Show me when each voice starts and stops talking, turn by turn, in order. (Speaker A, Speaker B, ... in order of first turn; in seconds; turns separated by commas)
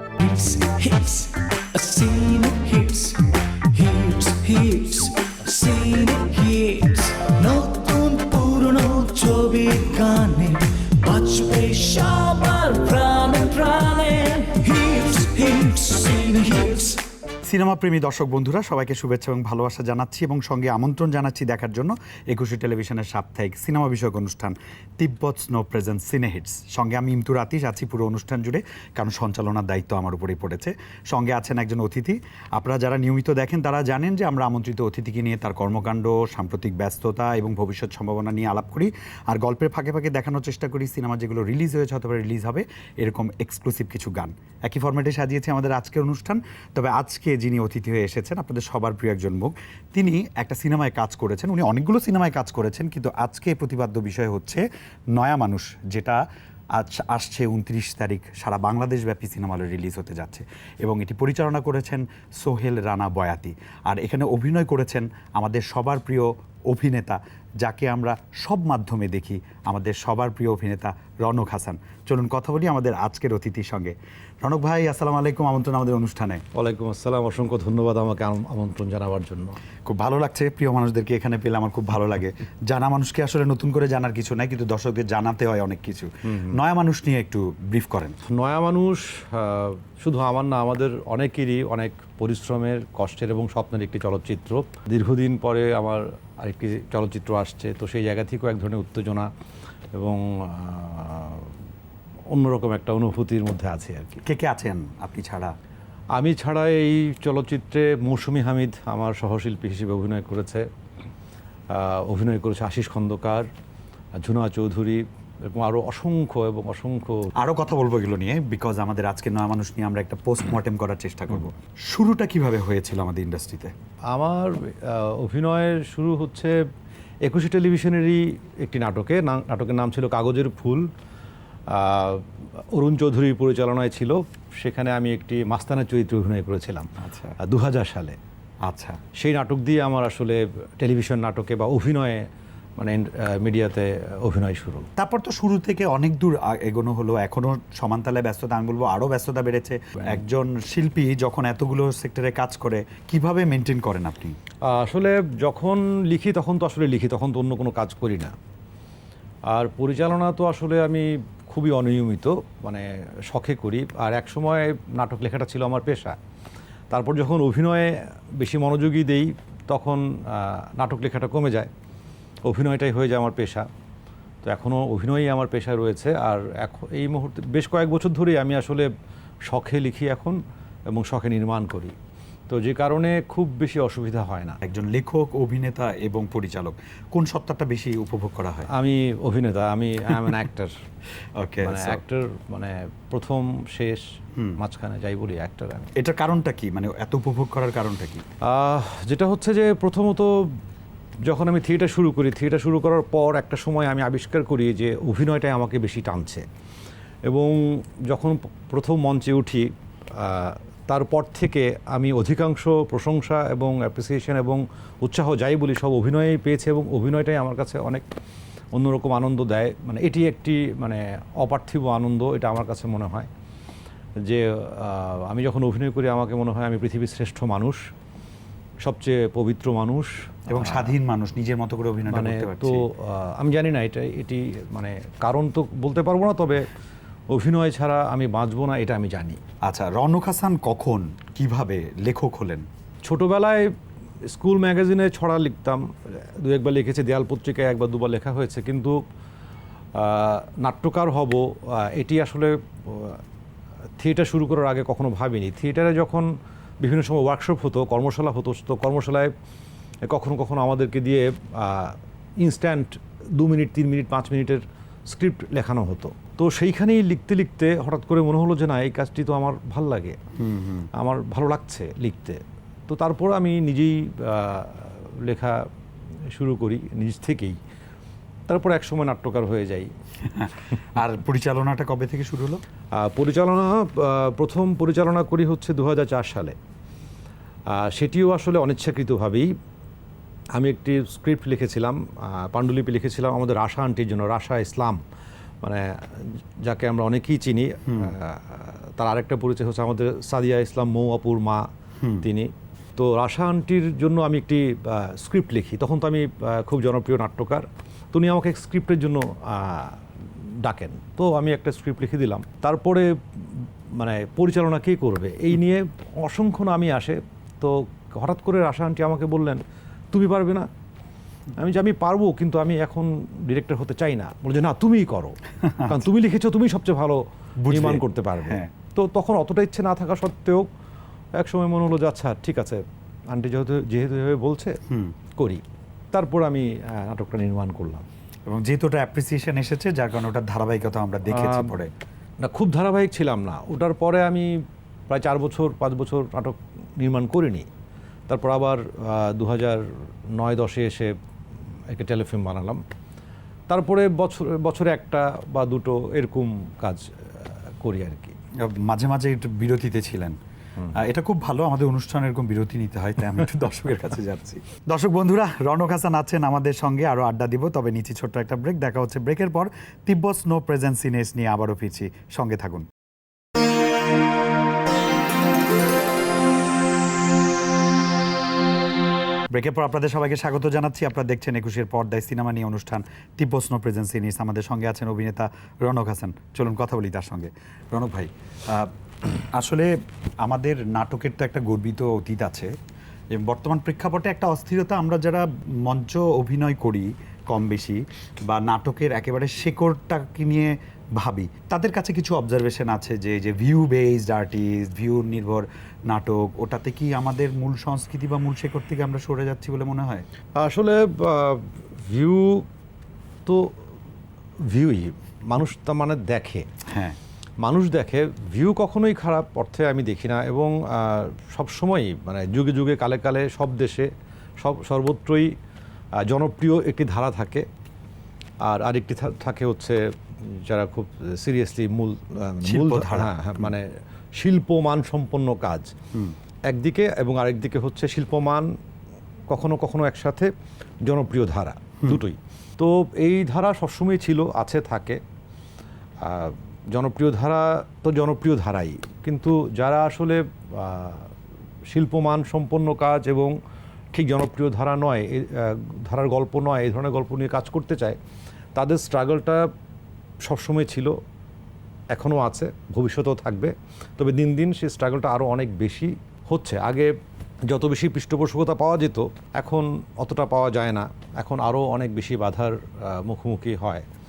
Speaker A: 0.2-17.0, Speaker B: 17.5-54.6, Speaker B: 55.1-56.2, Speaker B: 56.8-76.4, Speaker C: 76.5-79.6, Speaker B: 79.9-88.2, Speaker C: 86.3-86.6, Speaker C: 88.3-99.3, Speaker C: 100.0-101.5, Speaker C: 102.3-104.2, Speaker B: 104.2-105.5, Speaker C: 106.2-110.7, Speaker C: 111.7-113.5, Speaker C: 114.2-117.3, Speaker B: 117.4-123.7, Speaker C: 124.1-126.6, Speaker C: 127.2-130.9, Speaker C: 131.7-136.9, Speaker B: 137.0-137.4, Speaker C: 137.4-138.2, Speaker B: 138.6-139.0, Speaker C: 139.2-142.2, Speaker C: 142.8-144.9, Speaker B: 145.0-154.4, Speaker C: 154.7-158.3, Speaker C: 159.5-166.2, Speaker C: 166.9-171.7, Speaker C: 172.5-173.7, Speaker C: 174.4-178.9, Speaker C: 179.5-180.4, Speaker C: 180.9-181.9, Speaker C: 182.5-184.6, Speaker B: 184.7-188.7, Speaker C: 188.7-190.7, Speaker B: 191.4-192.0, Speaker C: 191.6-194.0, Speaker C: 194.6-195.9, Speaker B: 196.0-198.2, Speaker C: 198.4-200.5, Speaker C: 201.2-206.4, Speaker C: 207.3-218.1, Speaker C: 218.7-223.3, Speaker C: 224.2-227.8, Speaker C: 228.8-230.9, Speaker B: 230.5-232.9, Speaker C: 232.1-236.7, Speaker C: 237.3-239.4, Speaker B: 239.6-242.7, Speaker C: 243.1-243.7, Speaker C: 244.3-249.0, Speaker C: 250.0-253.2, Speaker C: 254.0-256.3, Speaker C: 256.8-259.3, Speaker C: 260.1-270.2, Speaker B: 270.4-270.9, Speaker C: 270.9-275.6, Speaker C: 276.3-277.6, Speaker C: 278.5-279.9, Speaker B: 280.2-282.6, Speaker C: 282.9-286.6, Speaker C: 287.7-289.5, Speaker C: 290.6-295.0, Speaker C: 295.6-301.6, Speaker B: 297.9-298.1, Speaker B: 302.0-302.3, Speaker C: 302.2-310.0, Speaker C: 310.6-320.7, Speaker C: 321.6-330.7, Speaker B: 325.6-326.1, Speaker B: 327.6-328.7, Speaker C: 331.4-334.8, Speaker B: 334.9-335.1, Speaker C: 335.4-338.1, Speaker B: 338.5-341.9, Speaker C: 341.3-341.8, Speaker C: 342.4-344.5, Speaker C: 345.1-347.7, Speaker C: 348.3-351.1, Speaker C: 351.9-352.8, Speaker C: 353.7-358.4, Speaker B: 358.6-360.4, Speaker B: 360.9-372.9, Speaker B: 379.5-388.9, Speaker B: 389.5-389.9, Speaker B: 390.4-392.7, Speaker B: 393.3-410.3, Speaker C: 410.6-412.7, Speaker C: 413.5-413.7, Speaker C: 414.7-416.7, Speaker B: 416.9-417.2, Speaker C: 417.6-425.5, Speaker C: 426.2-427.7, Speaker C: 428.6-435.9, Speaker B: 432.6-433.7, Speaker C: 436.7-438.7, Speaker C: 439.5-440.5, Speaker C: 441.1-445.2, Speaker C: 446.2-451.3, Speaker C: 451.9-453.6, Speaker C: 454.1-458.2, Speaker C: 458.8-459.6, Speaker C: 460.5-461.1, Speaker C: 462.1-467.1, Speaker C: 467.7-474.1